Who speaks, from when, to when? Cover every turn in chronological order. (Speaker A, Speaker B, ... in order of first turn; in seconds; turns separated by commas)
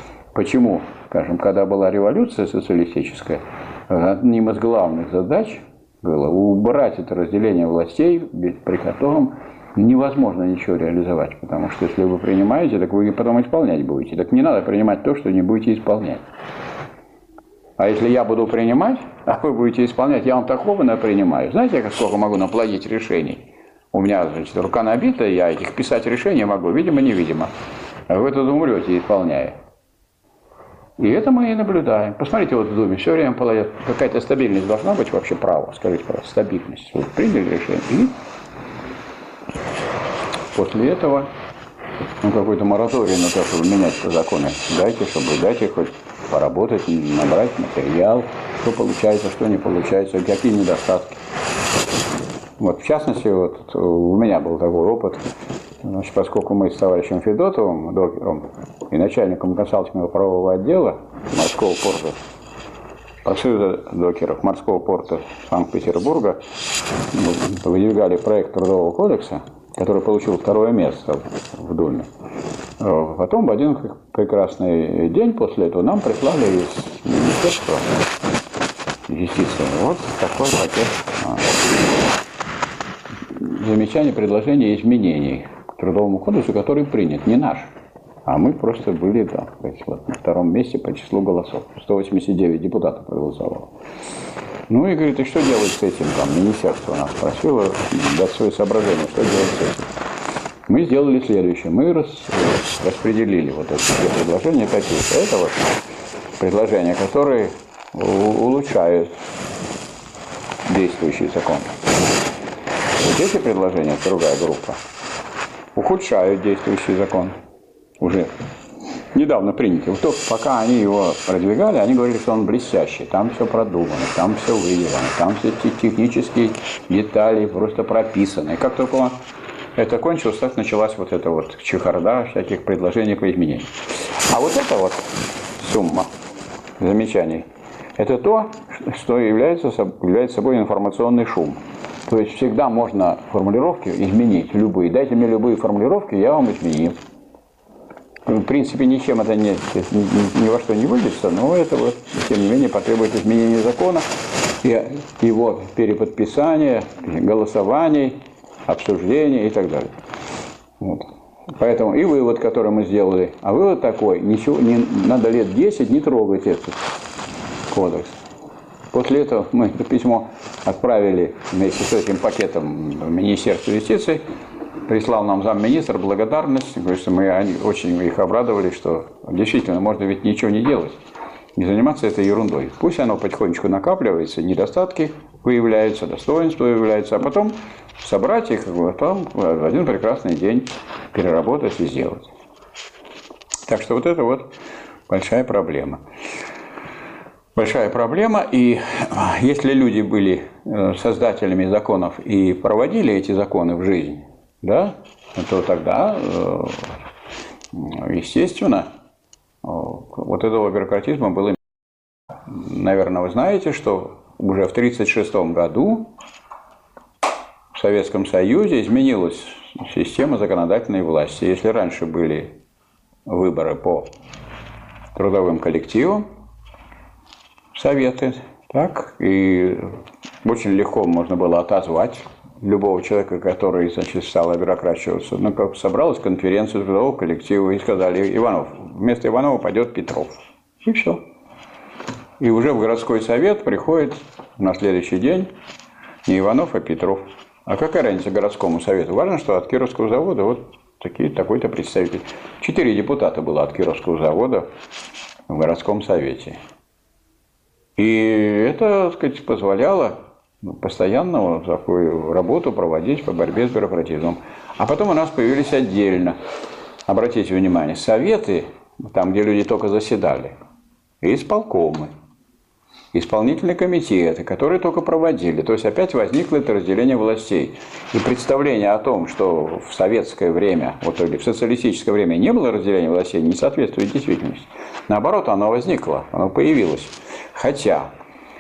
Speaker A: 0.3-16.2, Speaker A: 17.8-27.5, Speaker A: 28.1-29.6, Speaker A: 31.0-38.2, Speaker A: 40.5-41.3, Speaker A: 42.2-51.2, Speaker A: 52.6-55.2, Speaker A: 55.8-62.2, Speaker A: 63.2-66.4, Speaker A: 67.1-72.1, Speaker A: 72.8-77.9, Speaker A: 79.1-81.6, Speaker A: 83.3-87.7, Speaker A: 88.3-93.7, Speaker A: 94.7-99.9, Speaker A: 100.7-105.7, Speaker A: 106.4-109.1, Speaker A: 110.7-111.8, Speaker A: 113.0-114.8, Speaker A: 115.8-117.4, Speaker A: 118.0-118.3, Speaker A: 119.1-129.2, Speaker A: 129.8-133.7, Speaker A: 134.2-136.1, Speaker A: 136.8-147.0, Speaker A: 148.3-154.1, Speaker A: 154.6-159.9, Speaker A: 160.8-166.8, Speaker A: 167.7-168.2, Speaker A: 168.9-174.2, Speaker A: 174.9-181.0, Speaker A: 181.6-192.3, Speaker A: 193.7-194.5, Speaker A: 195.1-196.0, Speaker A: 197.6-207.0, Speaker A: 207.7-208.9, Speaker A: 209.6-211.6, Speaker A: 212.5-216.1, Speaker A: 217.7-222.5, Speaker A: 223.3-224.1, Speaker A: 225.2-226.3, Speaker A: 227.7-229.9, Speaker A: 230.4-241.2, Speaker A: 242.4-245.5, Speaker A: 246.3-254.7, Speaker A: 255.5-256.6, Speaker A: 258.0-266.4, Speaker A: 267.1-270.6, Speaker A: 271.2-272.1, Speaker A: 273.1-288.1